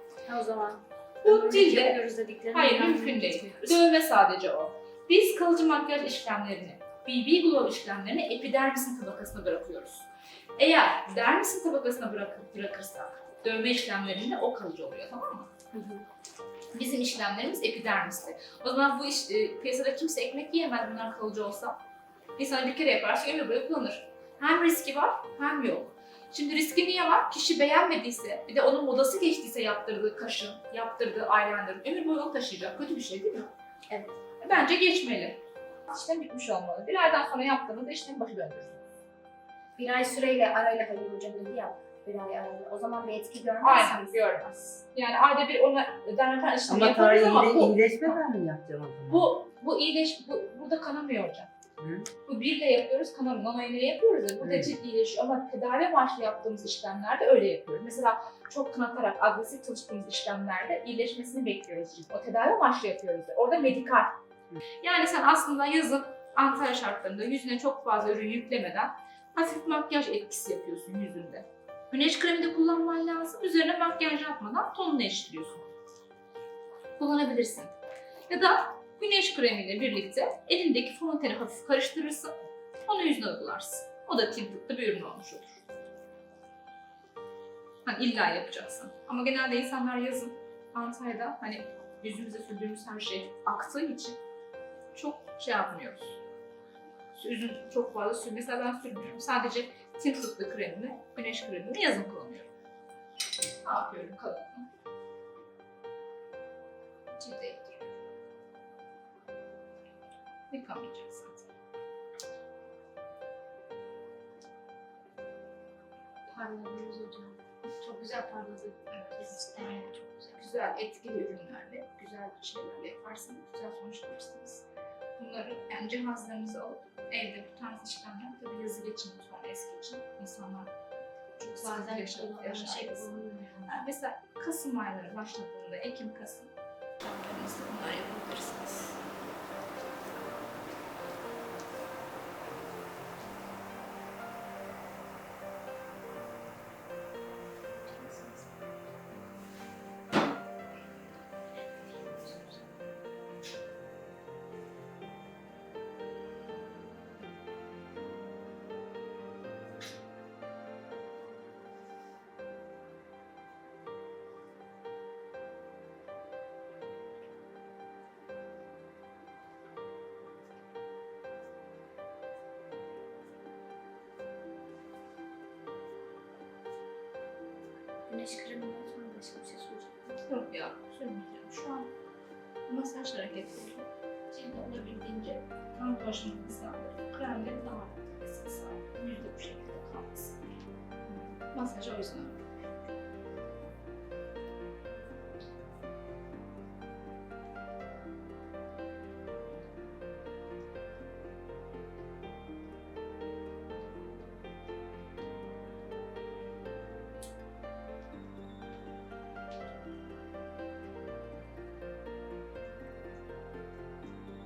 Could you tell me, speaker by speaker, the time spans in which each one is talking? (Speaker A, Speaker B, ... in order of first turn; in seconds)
Speaker A: 0.3-3.8, 15.7-16.1, 39.8-44.0, 116.3-120.4, 131.4-133.7, 178.1-180.0
Speaker B: 1.2-2.0, 2.5-15.5, 16.7-21.8, 22.4-33.5, 34.4-38.8, 43.6-48.2, 49.1-51.5, 52.3-64.2, 64.8-75.7, 77.0-77.8, 78.3-82.3, 82.8-85.6, 87.8-94.2, 94.9-96.2, 97.2-102.5, 103.6-104.7, 107.2-107.9, 110.5-111.5, 118.9-124.7, 125.2-130.8, 131.4-139.0, 147.9-148.4, 180.1-181.9, 182.7-190.5, 191.5-192.5
Speaker C: 46.7-49.3, 51.8-52.1, 54.4-54.7